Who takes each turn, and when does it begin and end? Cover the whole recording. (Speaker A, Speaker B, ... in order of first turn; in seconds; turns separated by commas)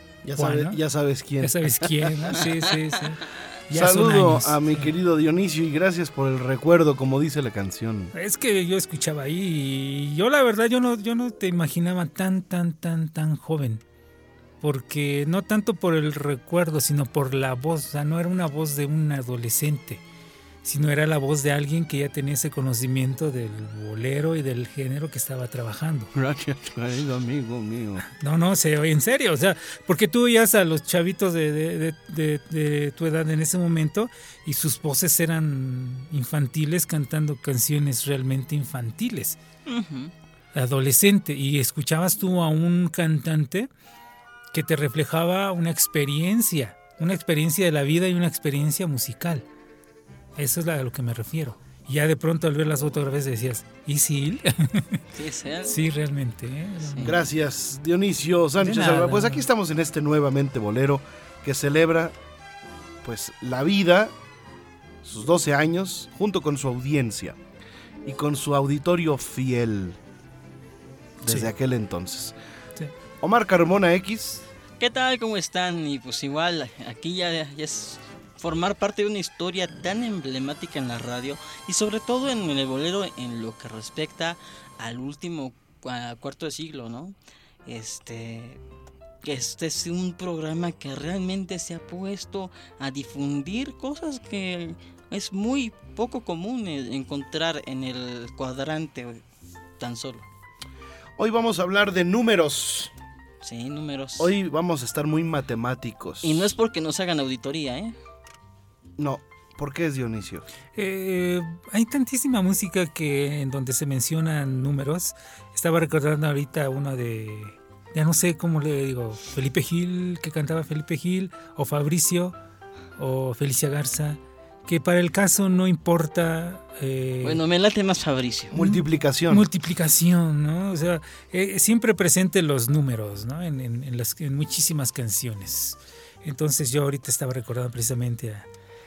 Speaker A: 0.2-2.2, Speaker B: 0.4-0.8, Speaker B: 1.4-4.9, Speaker A: 3.7-8.1, Speaker B: 8.2-13.8, Speaker B: 14.6-20.0, Speaker B: 20.6-26.1, Speaker A: 26.1-28.1, Speaker B: 28.2-39.4, Speaker C: 39.7-40.1, Speaker B: 40.5-43.7, Speaker B: 44.5-49.5, Speaker B: 50.4-55.0, Speaker C: 55.1-55.8, Speaker B: 55.7-57.2, Speaker C: 56.9-57.1, Speaker A: 57.0-62.2, Speaker B: 58.6-59.5, Speaker A: 63.0-64.2, Speaker A: 65.0-67.4, Speaker A: 68.0-70.0, Speaker A: 71.2-72.3, Speaker A: 73.2-74.5, Speaker C: 74.8-87.2, Speaker C: 87.7-88.6, Speaker C: 89.2-99.2, Speaker C: 99.8-100.3, Speaker A: 101.2-102.9, Speaker C: 103.4-104.3, Speaker A: 104.2-106.5, Speaker C: 106.2-108.0, Speaker A: 109.0-110.5, Speaker B: 110.8-122.4, Speaker B: 123.0-127.4, Speaker C: 127.2-128.6, Speaker A: 128.5-129.5, Speaker B: 128.6-138.5